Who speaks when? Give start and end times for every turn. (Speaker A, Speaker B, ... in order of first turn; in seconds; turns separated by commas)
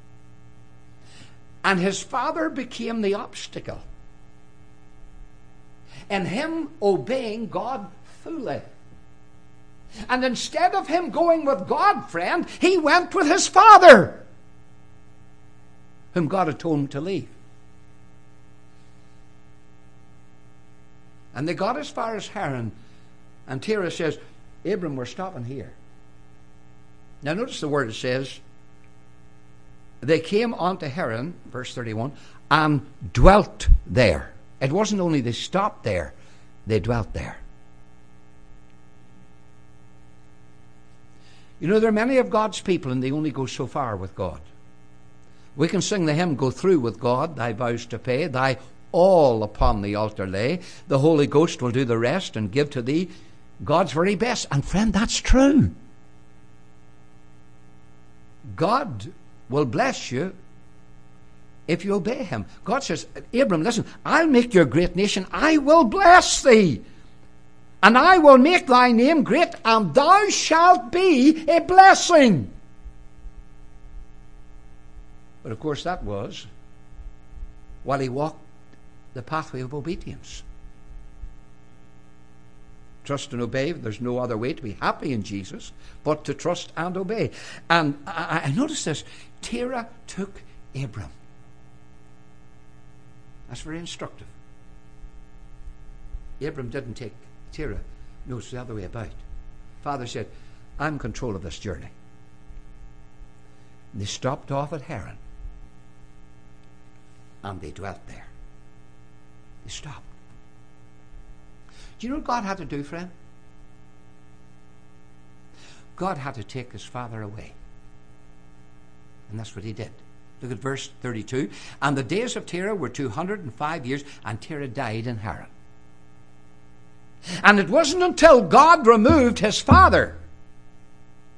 Speaker A: 1.6-3.9, Speaker A: 6.1-8.7, Speaker A: 10.1-14.2, Speaker A: 16.1-17.3, Speaker A: 21.3-22.7, Speaker A: 23.5-25.8, Speaker A: 27.2-28.4, Speaker A: 30.0-36.1, Speaker A: 36.7-37.4, Speaker A: 41.6-44.5, Speaker A: 45.6-53.1, Speaker A: 53.6-55.7, Speaker A: 58.5-60.3, Speaker A: 61.7-66.8, Speaker A: 67.8-72.5, Speaker A: 75.4-76.5, Speaker A: 77.8-78.4, Speaker A: 79.1-80.4, Speaker A: 83.0-91.1, Speaker A: 93.5-94.3, Speaker A: 96.4-99.2, Speaker A: 99.8-101.9, Speaker A: 103.9-105.2, Speaker A: 107.4-108.3, Speaker A: 109.6-110.1, Speaker A: 112.0-113.1, Speaker A: 116.0-117.6, Speaker A: 119.3-125.5, Speaker A: 127.4-130.2